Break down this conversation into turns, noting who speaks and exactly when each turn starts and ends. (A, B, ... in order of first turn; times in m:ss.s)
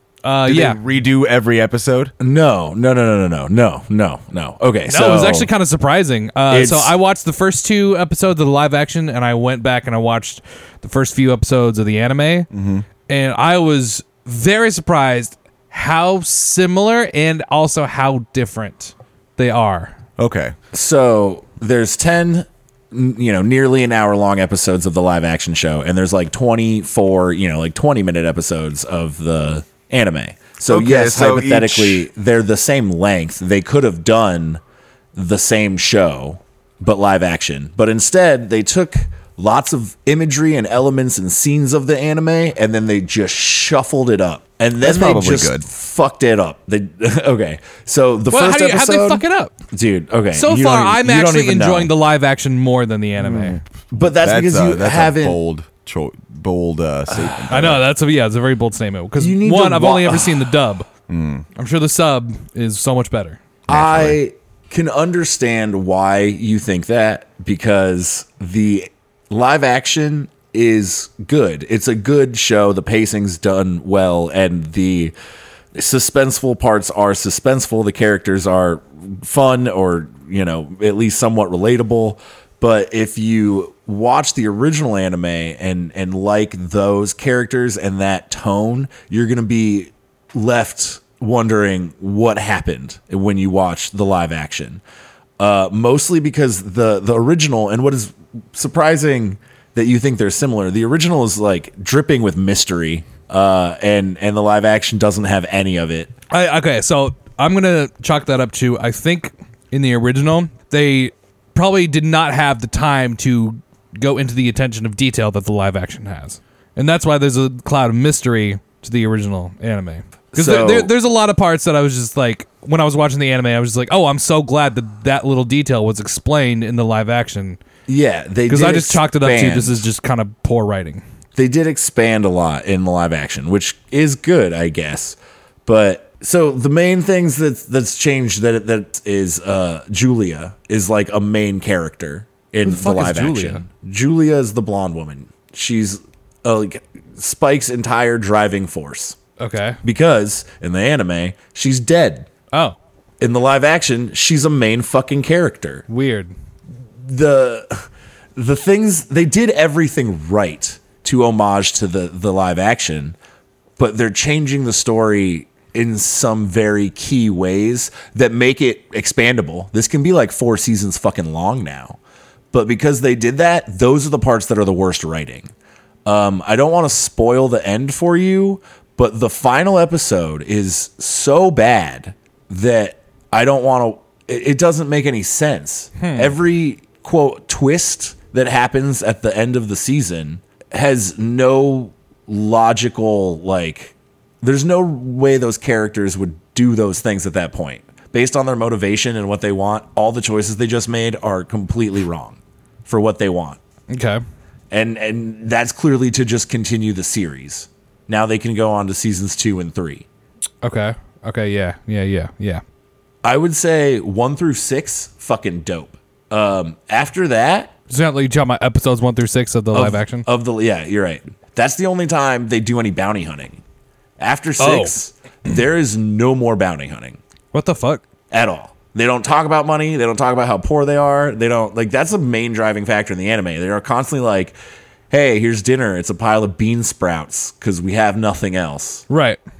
0:00.2-0:00.8 A
0:00.4-0:02.1 B
0:02.2-0:05.5 C
0:04.9-0:12.5 A
0:06.5-0:06.9 C
0:12.5-0:12.8 B
0:13.1-0:19.9 A
0:20.2-0:20.5 B
0:20.7-0:34.6 C
0:30.7-0:32.0 B
0:35.1-0:51.9 C
0:44.8-0:45.6 B
0:48.3-0:49.5 A
0:50.3-0:53.6 A
0:53.2-0:53.6 B
0:53.9-0:55.4 C
0:54.2-0:57.8 B
0:57.1-0:57.4 C
0:57.5-1:00.9 A
0:59.2-1:00.6 C
1:01.1-1:01.4 B
1:01.6-1:03.4 A
1:03.7-1:04.2 B
1:03.7-1:15.1 C
1:15.7-1:34.8 C
1:35.4-1:46.1 C
1:46.3-2:07.6 A
2:00.3-2:00.9 C
2:07.9-2:09.9 C
2:08.5-2:11.0 A
2:11.4-2:29.2 C
2:22.6-2:23.6 A
2:29.4-2:29.8 A
2:29.8-2:32.3 C
2:33.2-2:35.8 C
2:35.9-2:36.3 A
2:37.0-2:43.2 C
2:43.8-2:52.0 C
2:52.5-2:55.5 C
2:56.0-3:23.6 C
3:06.0-3:06.3 A
3:23.9-3:24.2 A
3:24.7-3:30.1 C
3:30.6-3:32.6 A
3:33.2-3:37.7 C
3:37.9-3:40.2 A
3:39.7-3:43.6 C
3:44.2-3:47.2 C
3:44.6-3:44.9 A
3:47.5-3:48.0 A
3:48.3-3:54.6 C
3:55.1-3:59.1 C
3:59.1-3:59.4 A